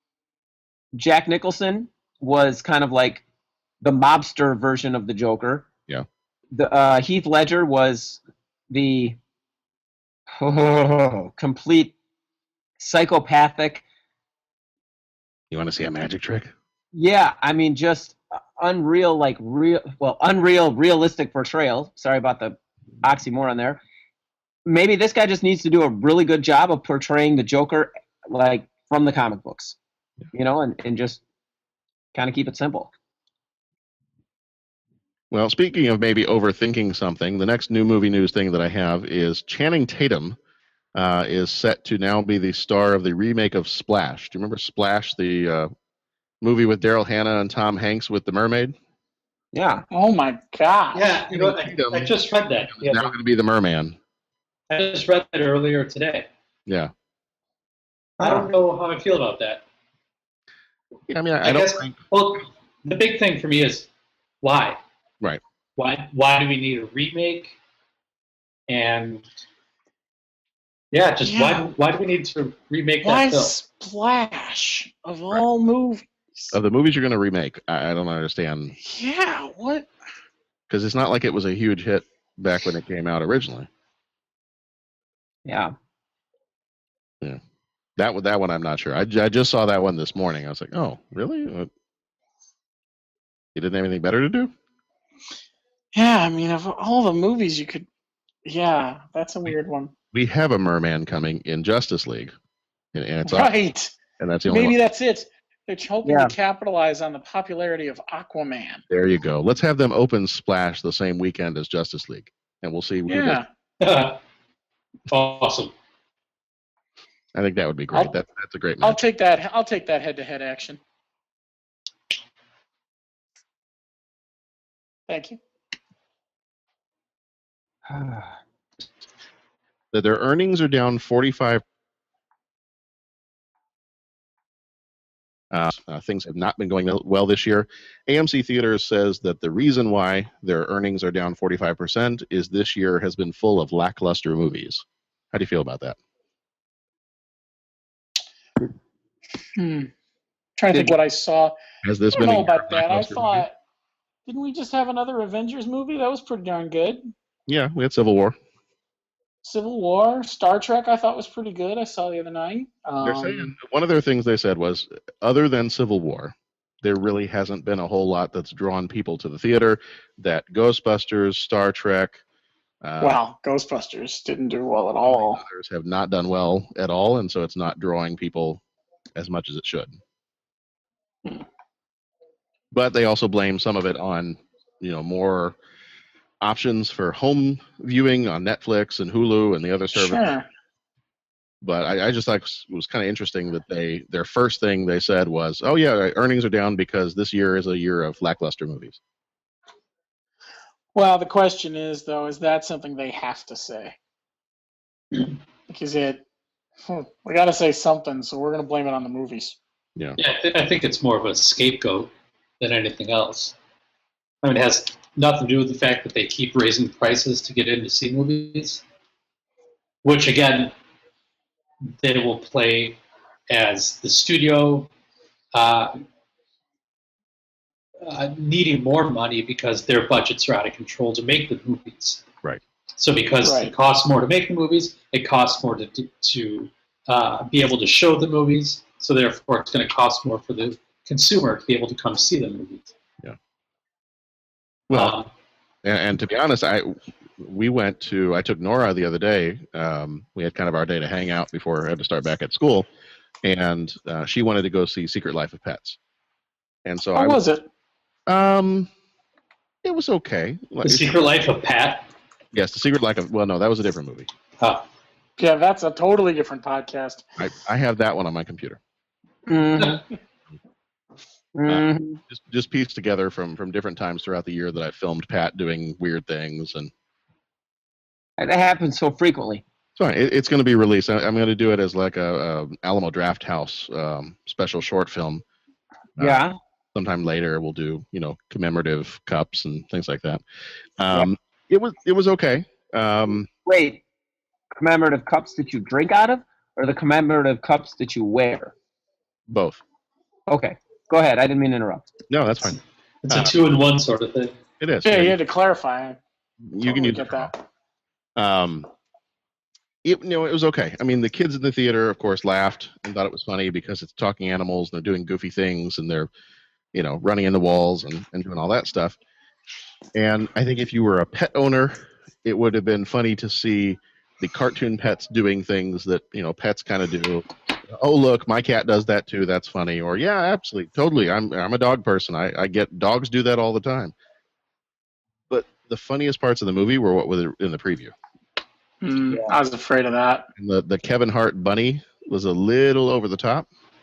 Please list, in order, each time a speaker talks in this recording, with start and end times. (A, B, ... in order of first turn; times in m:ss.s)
0:00.9-0:03.2 A
0:03.8-0:05.7 A
0:06.5-0:09.2 A
0:10.4-0:11.9 A
0:12.8-0:13.8 A
0:15.5-0:16.5 B
0:16.9-0:23.8 A
0:24.6-0:29.8 A
0:30.3-0:31.2 A
0:32.1-0:32.9 A
0:35.3-0:40.4 B
0:40.9-0:45.7 B
0:46.4-0:48.8 B
0:49.5-0:49.8 A
0:49.9-0:51.1 C
0:50.9-0:53.1 D
0:51.3-0:52.1 B
0:52.7-0:54.0 B
0:54.7-0:56.3 D
0:56.6-0:56.9 B
0:58.2-0:59.6 D
1:01.1-1:02.0 B
1:01.4-1:03.9 D
1:04.4-1:04.8 D
1:05.8-1:07.5 D
1:08.7-1:09.2 D
1:10.9-1:13.5 D
1:11.2-1:11.7 C
1:13.0-1:16.6 C
1:16.5-1:18.8 B
1:18.8-1:19.9 C
1:20.7-1:23.7 B
1:25.4-1:25.7 A
1:28.0-1:31.7 B
1:33.5-1:34.5 B
1:35.9-1:37.9 C
1:38.4-1:39.9 C
1:40.1-1:42.3 B
1:42.9-1:43.5 B
1:43.2-1:43.9 C
1:44.2-1:44.8 B
1:44.5-1:48.8 C
1:46.0-1:46.3 A
1:48.9-1:53.4 B
1:53.1-1:53.5 C
1:53.8-1:54.2 D
1:55.1-1:55.7 D
1:57.3-1:59.0 B
1:58.8-2:00.8 C
2:05.1-2:05.4 C
2:07.9-2:08.3 A
2:09.9-2:11.6 B
2:15.5-2:26.0 B
2:29.6-2:29.9 C
2:30.6-2:31.5 C
2:31.8-2:33.4 B
2:32.1-2:33.6 C
2:34.2-2:37.1 C
2:37.5-2:38.4 B
2:39.4-2:43.5 C
2:43.0-2:52.2 B
2:52.8-2:53.2 B
2:53.0-2:55.4 C
2:55.0-2:58.6 B
2:59.1-3:00.0 B
3:02.7-3:05.6 B
3:06.4-3:10.2 B
3:09.9-3:10.5 C
3:11.6-3:19.0 B
3:20.9-3:24.0 C
3:25.7-3:26.2 C
3:26.8-3:29.6 C
3:30.2-3:33.5 D
3:34.4-3:38.8 D
3:40.0-3:40.7 D
3:42.0-3:43.0 D
3:43.5-3:44.9 D
3:45.5-3:46.0 D
3:48.0-3:52.2 D
3:53.0-4:02.9 D
3:53.4-3:53.7 C
4:04.9-4:05.2 B
4:04.9-4:05.3 D
4:05.8-4:12.9 B
4:13.4-4:16.0 B
4:16.8-4:17.4 B
4:17.1-4:17.7 C
4:18.3-4:18.9 B
4:19.8-4:21.2 B
4:20.8-4:22.1 D
4:22.5-4:24.3 B
4:24.6-4:24.8 D
4:25.4-4:27.2 C
4:27.4-4:28.8 B
4:29.5-4:30.0 A
4:31.5-4:32.2 A
4:31.7-4:36.9 B
4:38.4-4:39.6 A
4:40.0-4:45.4 B
4:46.2-4:50.4 B
4:46.2-4:46.6 A
4:51.0-4:53.5 B
4:53.6-4:54.0 A
4:54.7-4:58.7 A
4:59.5-4:59.8 B
5:00.5-5:02.0 A
5:02.3-5:03.5 B
5:03.2-5:04.5 D
5:04.8-5:05.4 B
5:05.0-5:06.2 C
5:06.6-5:07.5 B
5:06.8-5:07.6 C
5:08.4-5:08.9 B
5:10.0-5:16.3 B
5:16.9-5:19.2 B
5:20.1-5:34.1 B
5:35.5-5:38.1 B
5:39.0-5:40.5 C
5:39.3-5:39.6 A
5:40.6-5:43.7 B